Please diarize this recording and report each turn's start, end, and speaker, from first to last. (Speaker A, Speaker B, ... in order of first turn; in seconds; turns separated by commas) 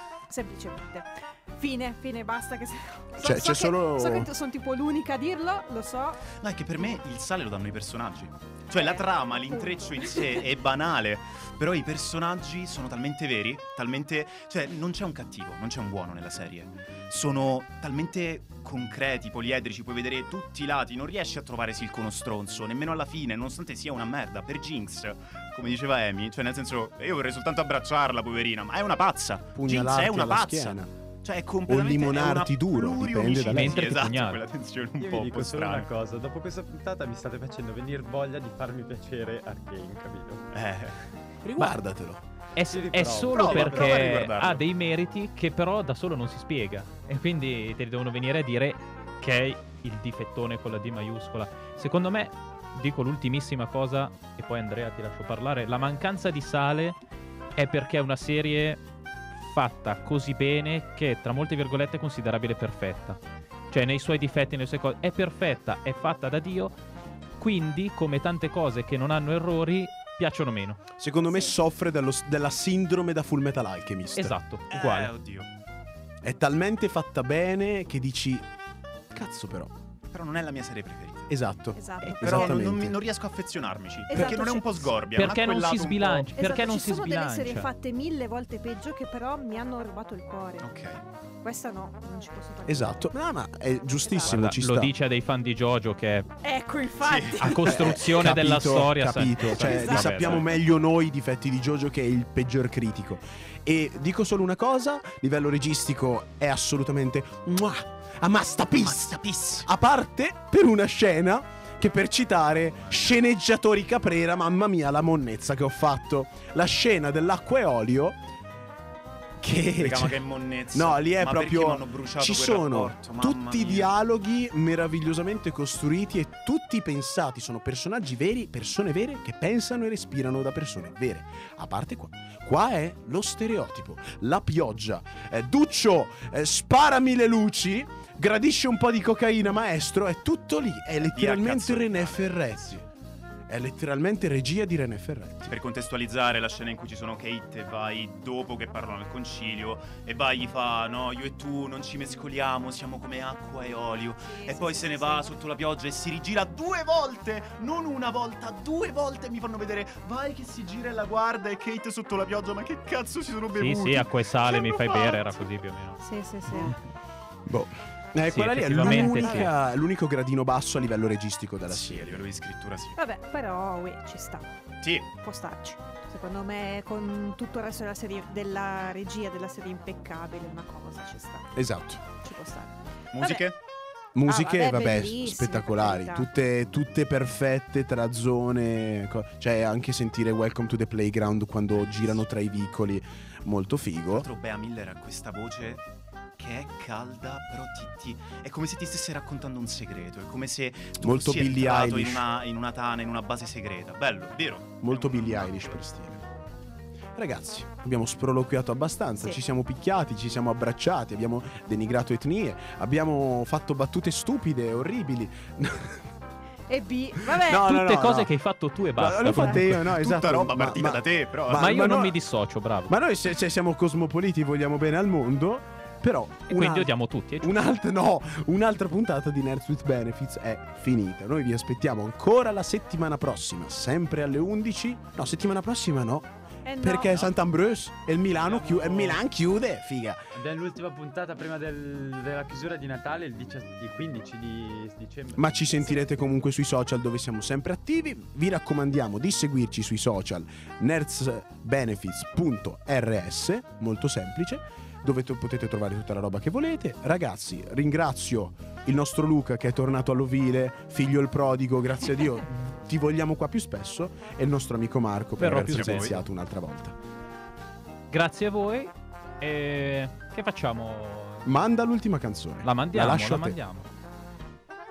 Speaker A: 0.3-6.2, Speaker B: 3.2-4.3, Speaker C: 6.4-35.9, Speaker A: 8.7-10.5, Speaker B: 29.6-30.9, Speaker B: 31.7-33.9, Speaker D: 33.5-34.4, Speaker E: 35.0-40.5, Speaker C: 40.5-41.1, Speaker B: 41.4-42.2, Speaker D: 42.6-57.0, Speaker E: 42.7-44.1, Speaker C: 43.3-44.7, Speaker D: 57.6-58.8, Speaker D: 59.4-66.8, Speaker D: 67.4-70.8, Speaker B: 71.0-74.4, Speaker D: 74.2-75.1, Speaker C: 74.7-75.5, Speaker B: 76.2-78.5, Speaker B: 79.1-79.7, Speaker C: 80.1-81.5, Speaker B: 81.3-83.0, Speaker A: 81.7-82.6, Speaker C: 82.2-86.3, Speaker A: 84.1-84.9, Speaker B: 84.2-84.6, Speaker D: 85.1-87.7, Speaker A: 86.3-90.7, Speaker C: 90.6-91.0, Speaker A: 91.4-93.1, Speaker B: 92.7-94.9, Speaker A: 94.0-94.4, Speaker D: 94.3-96.3, Speaker A: 96.4-98.0, Speaker C: 97.0-97.6, Speaker D: 97.4-100.4, Speaker B: 97.6-118.2, Speaker C: 99.6-100.5, Speaker A: 99.6-100.1, Speaker C: 108.8-109.7, Speaker C: 112.8-113.2, Speaker B: 119.4-120.2, Speaker C: 119.8-123.9, Speaker B: 120.7-142.8, Speaker C: 141.0-142.8, Speaker B: 143.5-145.5, Speaker C: 145.5-165.6, Speaker A: 154.2-155.3, Speaker D: 163.6-166.0, Speaker A: 166.0-166.8, Speaker B: 167.5-172.2, Speaker D: 168.3-169.5, Speaker A: 168.8-169.5, Speaker C: 171.7-173.0, Speaker A: 173.0-183.4, Speaker B: 181.5-182.0, Speaker C: 183.1-183.6, Speaker B: 184.2-194.3, Speaker A: 184.3-186.3, Speaker C: 191.7-192.2, Speaker C: 194.1-195.9, Speaker C: 196.4-205.8, Speaker B: 201.0-202.2, Speaker B: 204.8-206.2, Speaker B: 207.2-216.1, Speaker A: 216.7-217.7, Speaker B: 217.3-218.3, Speaker D: 217.6-219.9, Speaker B: 219.0-222.2, Speaker A: 219.3-219.6, Speaker C: 219.8-221.7, Speaker D: 221.5-223.0, Speaker B: 222.9-236.3, Speaker D: 226.5-227.6, Speaker A: 236.7-237.2, Speaker B: 236.8-240.2, Speaker E: 238.3-239.2, Speaker E: 240.3-246.0, Speaker B: 245.4-267.0, Speaker D: 265.4-266.3, Speaker C: 265.7-266.1, Speaker D: 268.1-271.5, Speaker B: 271.4-273.6, Speaker D: 272.6-273.9